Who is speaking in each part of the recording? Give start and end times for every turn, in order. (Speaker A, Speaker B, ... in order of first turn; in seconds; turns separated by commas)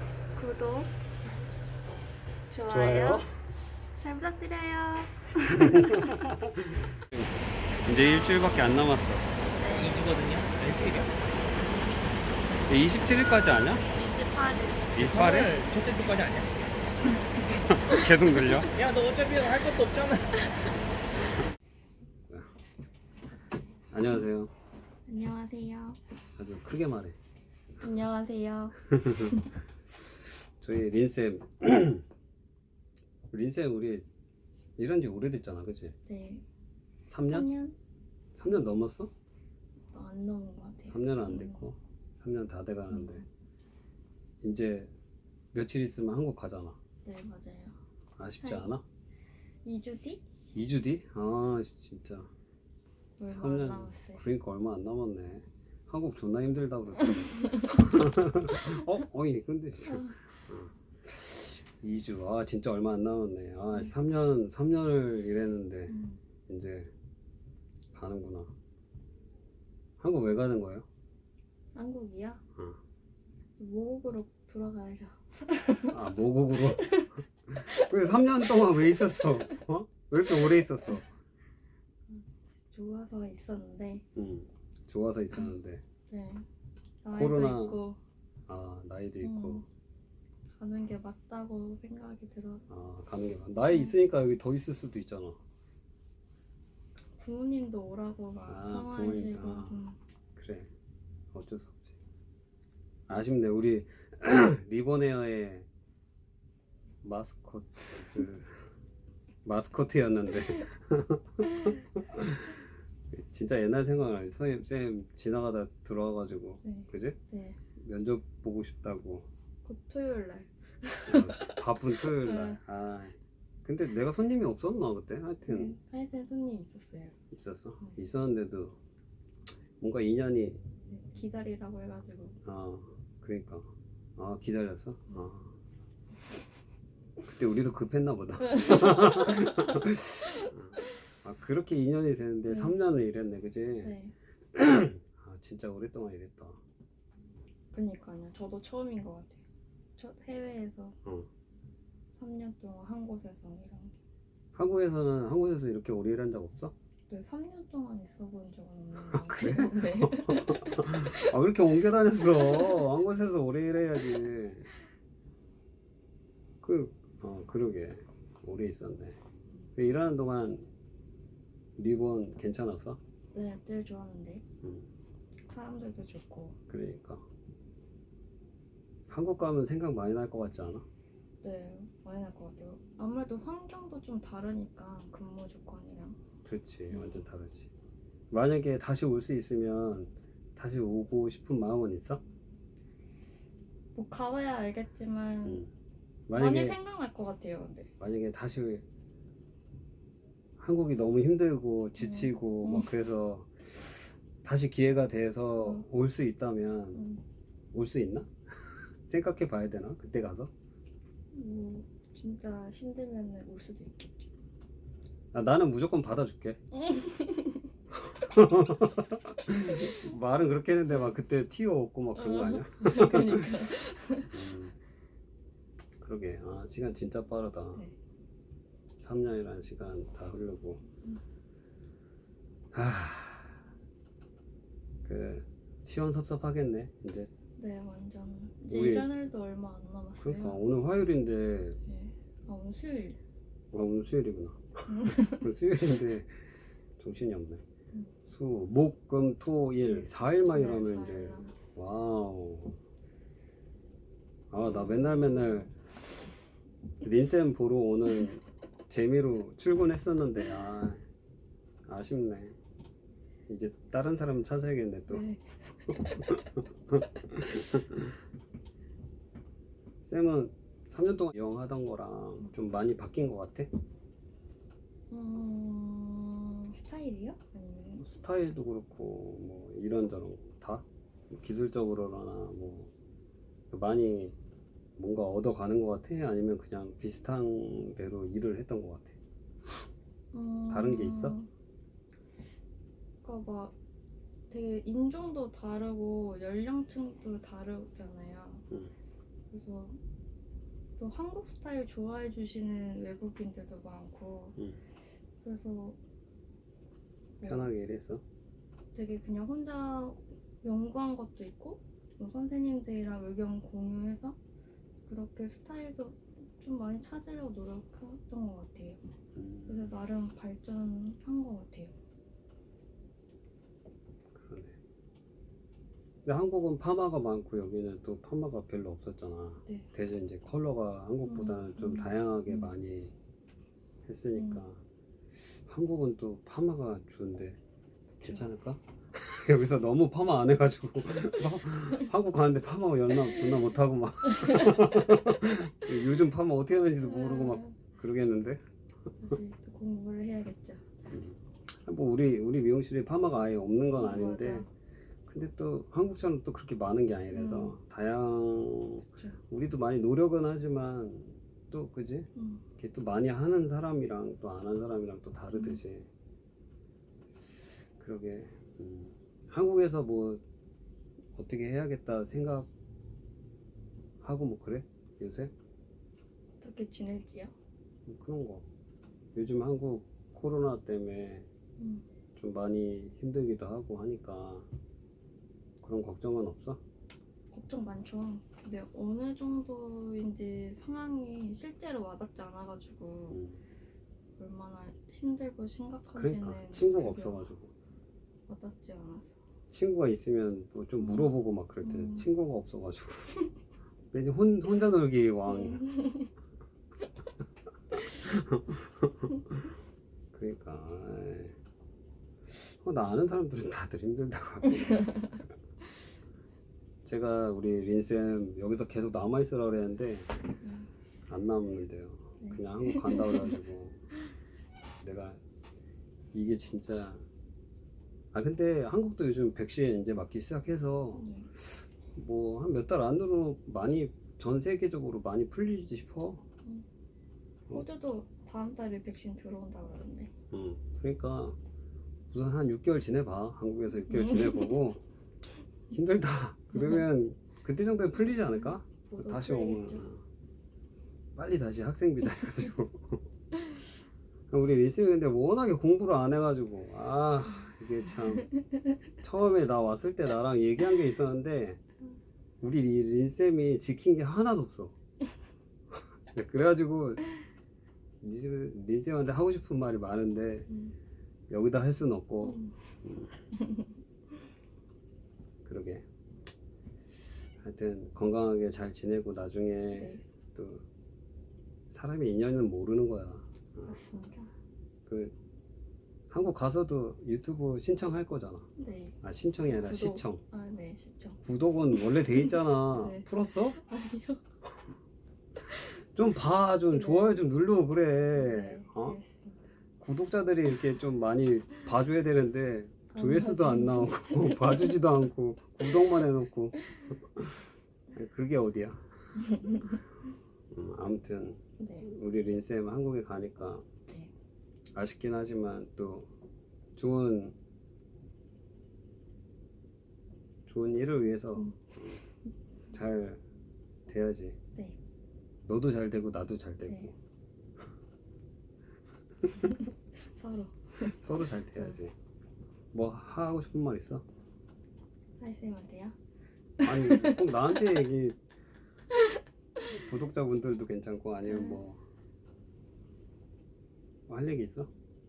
Speaker A: 0.3-0.9, Speaker A: 2.5-3.2, Speaker B: 2.7-3.3, Speaker A: 3.9-6.3, Speaker B: 5.6-6.5, Speaker A: 7.8-8.9, Speaker B: 7.8-9.3, Speaker A: 9.4-10.1, Speaker C: 9.8-11.1, Speaker B: 12.7-13.8, Speaker A: 13.8-15.0, Speaker B: 14.9-15.6, Speaker C: 14.9-16.6, Speaker B: 17.5-18.7, Speaker A: 17.9-18.6, Speaker C: 18.7-20.4, Speaker A: 20.3-20.7, Speaker B: 23.9-24.5, Speaker A: 25.1-26.0, Speaker B: 26.4-27.1, Speaker A: 27.8-29.5, Speaker B: 28.9-29.3, Speaker B: 30.1-32.0, Speaker B: 33.3-34.0, Speaker B: 34.8-36.0, Speaker A: 36.1-36.4, Speaker B: 37.1-37.5, Speaker A: 37.2-37.8, Speaker B: 38.3-39.1, Speaker A: 39.9-41.7, Speaker B: 40.9-43.2, Speaker A: 42.9-43.2, Speaker B: 44.4-44.9, Speaker B: 45.5-46.8, Speaker A: 47.0-47.8, Speaker B: 48.2-48.8, Speaker A: 48.4-48.7, Speaker A: 49.6-50.2, Speaker B: 50.5-52.3, Speaker A: 53.2-54.2, Speaker B: 53.3-66.0, Speaker A: 57.0-57.8, Speaker A: 58.5-59.0, Speaker A: 59.9-60.2, Speaker A: 65.9-66.2, Speaker B: 66.5-66.9, Speaker B: 67.9-68.5, Speaker B: 70.0-70.8, Speaker A: 71.7-72.4, Speaker A: 73.6-77.1, Speaker B: 75.9-77.0, Speaker B: 77.5-81.0, Speaker A: 77.6-79.6, Speaker A: 80.3-81.0, Speaker A: 82.1-84.0, Speaker B: 84.1-85.8, Speaker A: 86.1-86.4, Speaker A: 87.0-88.0, Speaker B: 87.1-87.8, Speaker B: 88.5-89.6, Speaker A: 89.2-89.6, Speaker A: 90.5-92.6, Speaker B: 92.7-95.4, Speaker A: 93.7-93.9, Speaker A: 97.2-100.0, Speaker B: 98.5-99.8, Speaker B: 100.3-100.7, Speaker B: 101.3-102.0, Speaker B: 103.1-105.7, Speaker B: 107.0-108.6, Speaker B: 109.4-117.2, Speaker A: 111.4-111.8, Speaker A: 116.6-117.6, Speaker B: 117.8-119.3, Speaker A: 119.6-122.6, Speaker B: 121.0-125.8, Speaker A: 125.5-127.2, Speaker B: 127.3-128.8, Speaker B: 129.8-130.6, Speaker A: 130.9-132.4, Speaker B: 132.4-135.5, Speaker B: 137.2-143.9, Speaker A: 138.4-139.8, Speaker A: 140.3-140.9, Speaker A: 142.5-142.8, Speaker A: 143.8-144.1, Speaker B: 144.5-146.6, Speaker A: 147.7-149.4, Speaker A: 150.0-151.0, Speaker A: 152.1-154.0, Speaker B: 154.5-156.7, Speaker A: 157.1-161.3, Speaker B: 159.0-164.7, Speaker A: 162.2-162.9, Speaker B: 166.6-169.2, Speaker B: 169.8-170.7, Speaker B: 171.8-173.0, Speaker A: 173.3-174.4, Speaker B: 174.6-174.9, Speaker A: 175.5-176.6, Speaker B: 176.7-177.2, Speaker B: 179.1-180.8, Speaker A: 181.4-186.2, Speaker B: 186.4-187.7, Speaker B: 188.3-192.2, Speaker A: 193.9-195.6, Speaker B: 195.4-195.7, Speaker B: 196.3-196.8, Speaker A: 196.3-197.9, Speaker B: 198.0-198.8, Speaker B: 200.6-207.0, Speaker A: 202.0-203.0, Speaker A: 205.6-205.8, Speaker A: 206.9-207.2, Speaker B: 207.7-208.3, Speaker B: 209.0-210.5, Speaker A: 211.3-214.3, Speaker B: 215.3-216.6, Speaker A: 216.7-217.7, Speaker B: 217.9-223.8, Speaker A: 222.1-224.4, Speaker B: 224.3-224.7, Speaker B: 226.0-227.8, Speaker B: 229.0-230.8, Speaker B: 232.7-233.6, Speaker B: 235.0-237.3, Speaker A: 237.6-240.6, Speaker B: 238.7-239.1, Speaker B: 240.2-241.8, Speaker A: 241.8-243.2, Speaker B: 243.7-246.3, Speaker A: 244.9-245.5, Speaker B: 247.0-247.6, Speaker B: 248.2-252.8, Speaker A: 249.9-251.7, Speaker B: 254.5-255.7, Speaker A: 254.6-255.7, Speaker B: 257.0-261.0, Speaker B: 261.9-262.6, Speaker B: 263.5-265.2, Speaker A: 265.1-266.2, Speaker B: 265.9-268.1, Speaker B: 270.1-273.7, Speaker A: 275.1-278.0, Speaker B: 278.0-282.9, Speaker B: 283.7-284.4, Speaker B: 285.0-289.1, Speaker A: 290.3-291.5, Speaker B: 290.7-291.4, Speaker A: 293.2-293.7, Speaker A: 294.5-298.6, Speaker A: 299.5-300.0, Speaker A: 301.0-304.6, Speaker A: 305.4-306.0, Speaker A: 307.4-307.7, Speaker B: 307.4-308.2, Speaker A: 308.9-314.4, Speaker A: 315.1-319.0, Speaker B: 319.3-319.8, Speaker A: 319.7-321.9, Speaker B: 324.3-324.8, Speaker B: 326.2-333.1, Speaker A: 331.2-332.7, Speaker B: 334.1-334.8, Speaker A: 334.3-334.6, Speaker B: 335.3-337.6, Speaker B: 338.2-348.6, Speaker A: 344.2-345.1, Speaker A: 347.0-347.7, Speaker A: 349.2-350.8, Speaker B: 351.1-354.6, Speaker A: 353.9-354.7, Speaker B: 355.3-366.1, Speaker A: 357.3-357.8, Speaker A: 359.1-359.4, Speaker A: 362.4-362.6, Speaker A: 365.5-365.8, Speaker B: 367.5-370.4, Speaker B: 371.3-372.7, Speaker B: 374.2-375.5, Speaker A: 376.6-377.5, Speaker B: 378.1-378.7, Speaker B: 379.3-381.5, Speaker A: 381.8-382.0, Speaker B: 382.4-384.6, Speaker B: 385.8-386.8, Speaker A: 387.5-393.4, Speaker B: 393.3-393.6, Speaker A: 394.4-397.5, Speaker B: 396.1-397.7, Speaker A: 398.5-399.4, Speaker B: 399.7-403.4, Speaker A: 401.0-402.3, Speaker B: 404.1-405.9, Speaker A: 405.5-406.3, Speaker B: 408.1-409.5, Speaker B: 410.3-411.6, Speaker B: 412.5-415.4, Speaker A: 414.7-415.2, Speaker B: 417.0-420.3, Speaker A: 420.6-420.9, Speaker B: 421.3-424.0, Speaker A: 422.4-423.5, Speaker B: 425.0-425.4, Speaker B: 426.3-427.2, Speaker B: 428.3-436.4, Speaker A: 431.1-431.5, Speaker A: 437.7-440.3, Speaker B: 440.5-441.6, Speaker B: 442.3-445.0, Speaker A: 444.0-444.8, Speaker B: 445.9-450.2, Speaker A: 446.7-447.0, Speaker A: 448.5-450.1, Speaker B: 451.4-453.2, Speaker B: 454.5-458.5, Speaker B: 459.2-461.8, Speaker B: 462.6-464.9, Speaker B: 466.3-467.3, Speaker B: 468.2-470.7, Speaker B: 471.5-473.3, Speaker A: 472.4-472.7, Speaker B: 475.6-476.0, Speaker B: 477.6-480.8, Speaker A: 479.9-480.2, Speaker B: 481.9-483.9, Speaker A: 483.8-484.5, Speaker B: 485.1-485.3, Speaker B: 486.3-488.7, Speaker A: 488.8-489.2, Speaker B: 489.2-490.4, Speaker A: 489.8-491.4, Speaker B: 491.4-493.8, Speaker A: 491.9-494.4, Speaker A: 495.6-496.0, Speaker B: 496.1-499.2, Speaker A: 496.9-497.4, Speaker A: 498.3-499.6, Speaker B: 500.0-507.6, Speaker A: 503.1-505.1, Speaker B: 508.1-509.0, Speaker A: 509.4-510.0, Speaker B: 510.7-513.9, Speaker A: 511.8-512.1, Speaker B: 514.9-516.3, Speaker B: 517.0-517.5, Speaker B: 520.7-522.2, Speaker B: 522.9-523.4, Speaker B: 524.1-524.6, Speaker B: 525.7-527.1, Speaker A: 526.8-527.1, Speaker A: 529.5-531.1, Speaker B: 531.1-532.1, Speaker B: 532.9-534.2, Speaker A: 535.4-536.1, Speaker A: 536.8-537.8, Speaker B: 536.8-538.4, Speaker A: 539.1-539.4, Speaker B: 539.8-542.0, Speaker A: 541.4-541.8, Speaker B: 544.3-544.9